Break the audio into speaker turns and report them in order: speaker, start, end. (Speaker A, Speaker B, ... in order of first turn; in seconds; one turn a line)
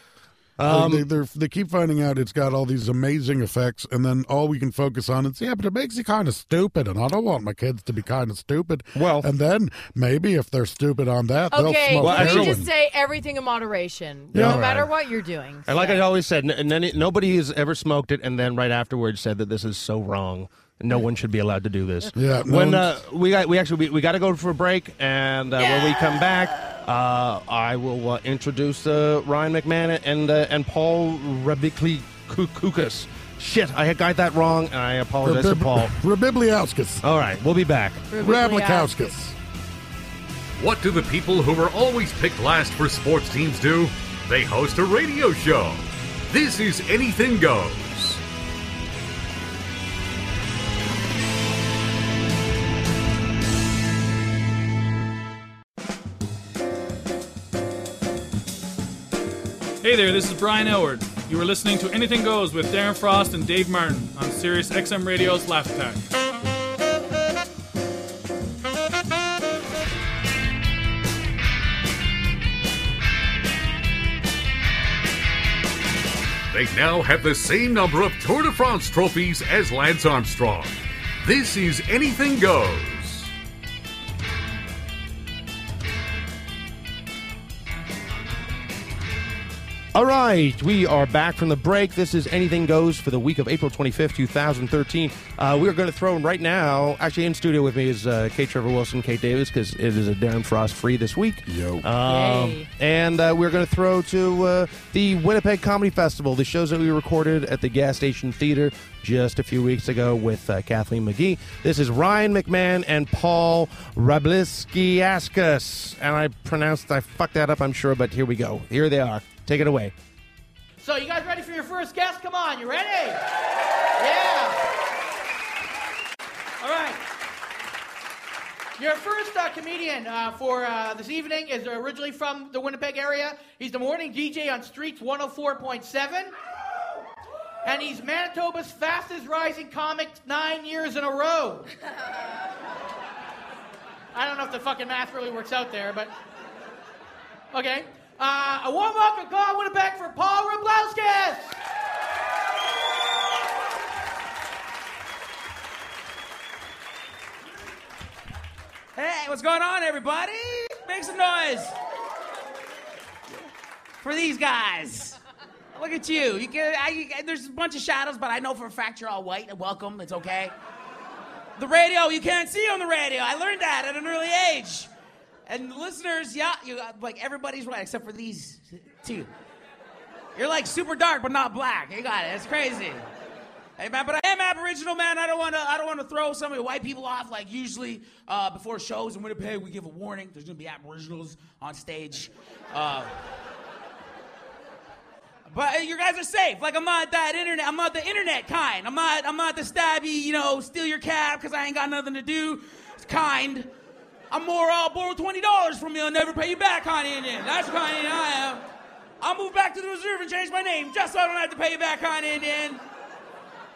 Speaker A: 0.6-1.1
Speaker B: 0.7-12.7
Speaker A: 8.9-9.3
Speaker C: 11.5-16.0
Speaker A: 12.0-12.6
Speaker B: 14.3-14.9
Speaker A: 14.3-14.8
Speaker A: 15.7-35.9
Speaker B: 22.1-23.0
Speaker B: 35.2-37.0
Speaker A: 37.0-38.0
Speaker C: 38.1-39.1
Speaker B: 38.2-39.4
Speaker D: 40.6-48.2
Speaker E: 59.8-66.1
Speaker D: 76.5-83.3
Speaker A: 89.9-119.9
Speaker B: 101.5-101.9
Speaker C: 102.0-102.7
Speaker F: 120.8-123.2
Speaker F: 124.0-124.7
Speaker F: 126.6-127.0
Speaker F: 128.8-136.3
Speaker F: 137.6-141.7
Speaker F: 144.1-146.1
Speaker F: 147.5-151.6
Speaker G: 158.9-161.7
Speaker G: 164.0-165.2
Speaker G: 165.7-170.5
Speaker G: 171.6-174.9
Speaker G: 175.5-179.3
Speaker G: 180.4-183.0
Speaker G: 183.8-193.1
Speaker G: 195.5-203.7
Speaker G: 204.3-208.6
Speaker G: 209.2-212.8